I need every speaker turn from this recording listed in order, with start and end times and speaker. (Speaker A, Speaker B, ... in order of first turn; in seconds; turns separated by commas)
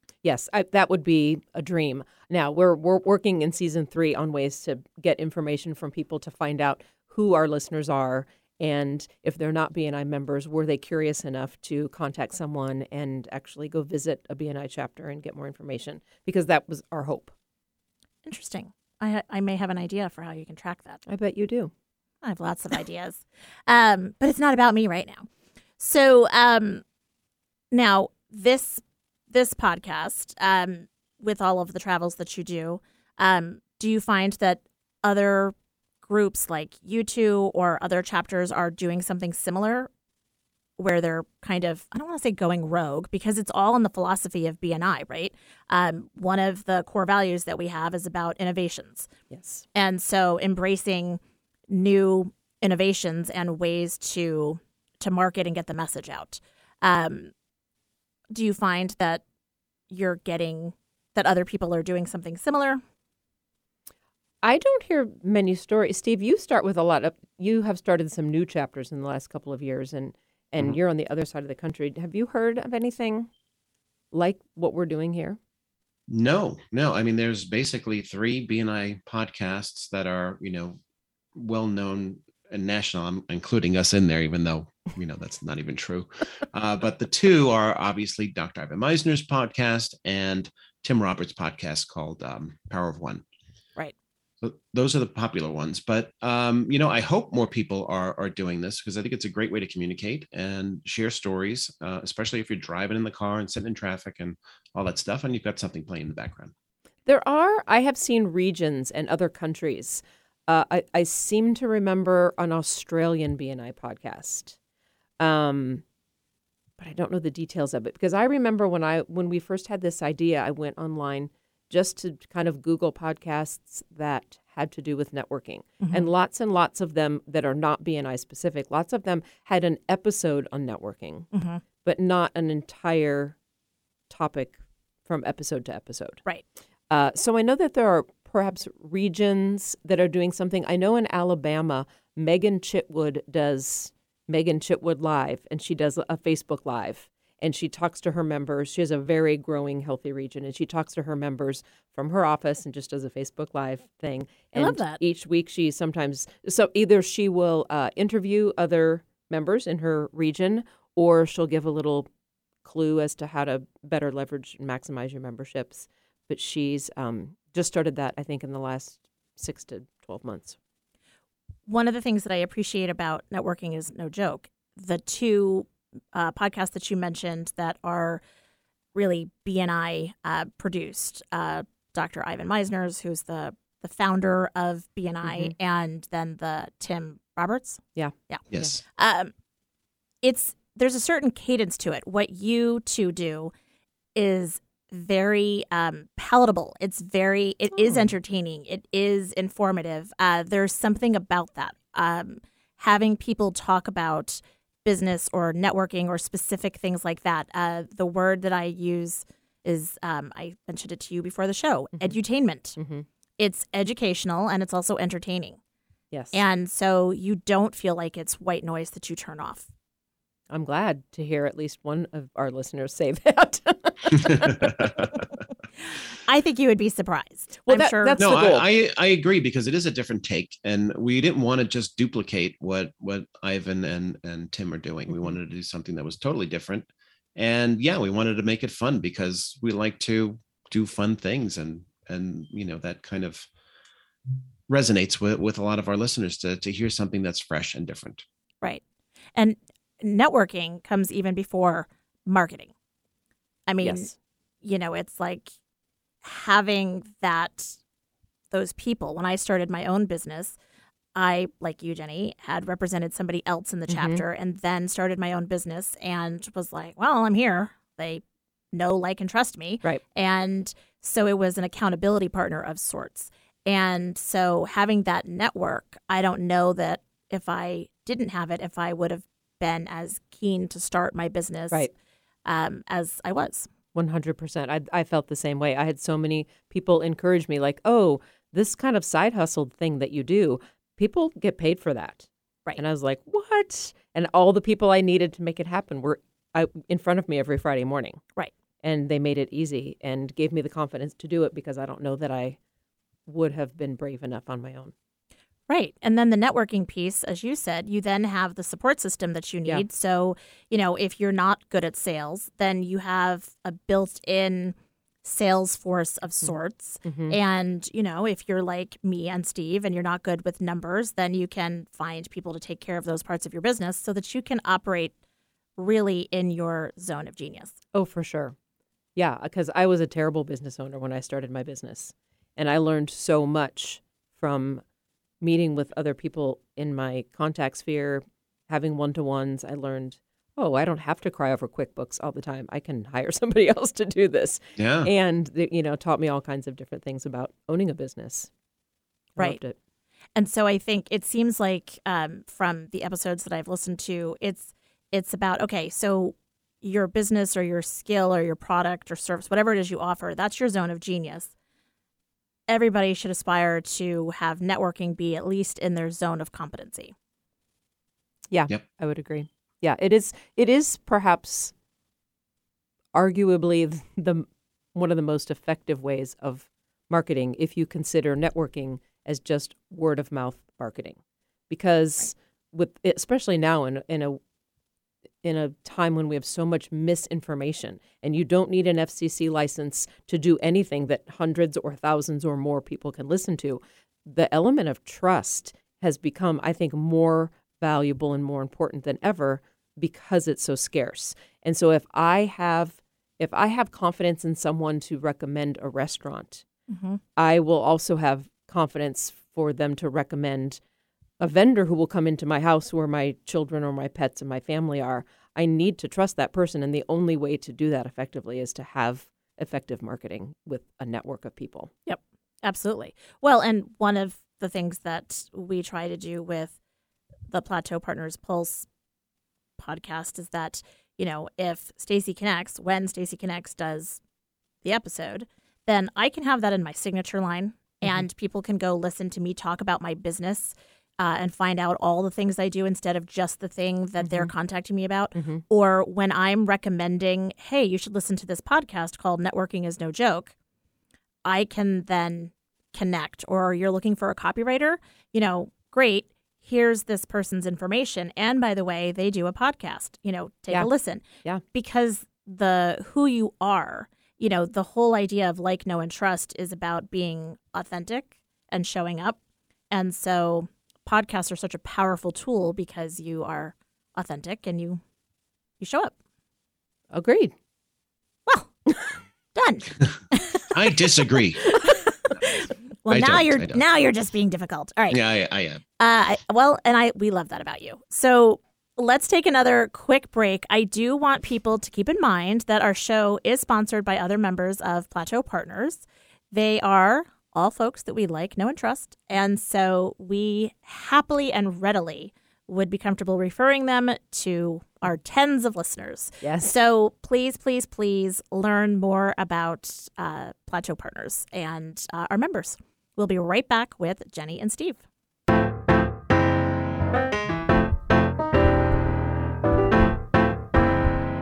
Speaker A: 0.2-17.3, Speaker B: 18.2-21.0, Speaker A: 21.1-21.7, Speaker B: 22.2-25.3, Speaker B: 25.8-26.8, Speaker B: 27.7-39.9, Speaker B: 40.8-49.1, Speaker A: 49.3-49.6, Speaker B: 49.7-57.3, Speaker B: 58.3-59.2, Speaker B: 59.9-62.8, Speaker A: 64.4-73.3, Speaker A: 74.1-75.4, Speaker C: 76.1-80.8, Speaker C: 81.3-93.2, Speaker C: 94.4-106.5, Speaker A: 107.0-114.5, Speaker A: 115.2-115.8, Speaker A: 116.8-131.3, Speaker B: 125.8-126.1, Speaker B: 131.3-131.6, Speaker A: 131.8-133.3, Speaker A: 134.1-136.2, Speaker A: 136.9-162.1, Speaker B: 154.5-155.0, Speaker A: 162.6-170.6, Speaker B: 171.7-178.2, Speaker B: 178.9-188.4, Speaker A: 185.2-185.5, Speaker A: 187.9-188.8, Speaker C: 188.5-188.8, Speaker B: 188.9-189.3, Speaker B: 190.2-193.5, Speaker B: 194.1-212.8, Speaker A: 212.8-213.1, Speaker B: 213.4-215.6, Speaker A: 216.1-216.4, Speaker B: 216.3-219.7, Speaker A: 220.5-224.9, Speaker C: 224.1-225.1, Speaker B: 226.2-228.2, Speaker A: 227.7-228.6, Speaker C: 228.2-243.5, Speaker A: 235.1-235.3, Speaker C: 244.7-248.2, Speaker B: 249.3-252.7, Speaker B: 253.7-254.1, Speaker A: 253.8-254.1, Speaker B: 254.6-255.6, Speaker B: 256.2-257.8, Speaker B: 258.5-260.6, Speaker B: 261.1-268.2, Speaker A: 263.9-264.2, Speaker B: 268.7-281.9, Speaker B: 282.4-283.7, Speaker A: 283.9-298.2, Speaker A: 298.8-302.6, Speaker A: 303.3-304.9, Speaker B: 305.7-325.1, Speaker A: 316.4-317.4, Speaker B: 325.8-327.8, Speaker A: 327.9-328.5, Speaker A: 329.1-334.8, Speaker A: 335.4-348.5, Speaker C: 344.8-345.1, Speaker A: 349.3-349.7, Speaker B: 350.4-361.5, Speaker B: 362.7-367.1, Speaker A: 368.5-371.7, Speaker A: 373.1-381.2, Speaker A: 381.7-384.4, Speaker A: 385.4-406.6, Speaker B: 406.9-407.2, Speaker A: 407.4-410.8, Speaker A: 411.4-421.9, Speaker B: 422.1-426.7, Speaker B: 427.5-428.9, Speaker B: 429.8-434.2, Speaker B: 434.8-450.5, Speaker A: 444.2-444.5, Speaker A: 445.3-445.6, Speaker B: 451.4-469.4, Speaker B: 469.9-475.0, Speaker B: 475.8-476.1, Speaker A: 477.1-477.5, Speaker B: 479.5-480.9, Speaker C: 480.7-481.6, Speaker B: 481.7-485.2, Speaker C: 483.1-483.8, Speaker C: 485.1-485.8, Speaker B: 486.0-515.0, Speaker A: 506.4-506.7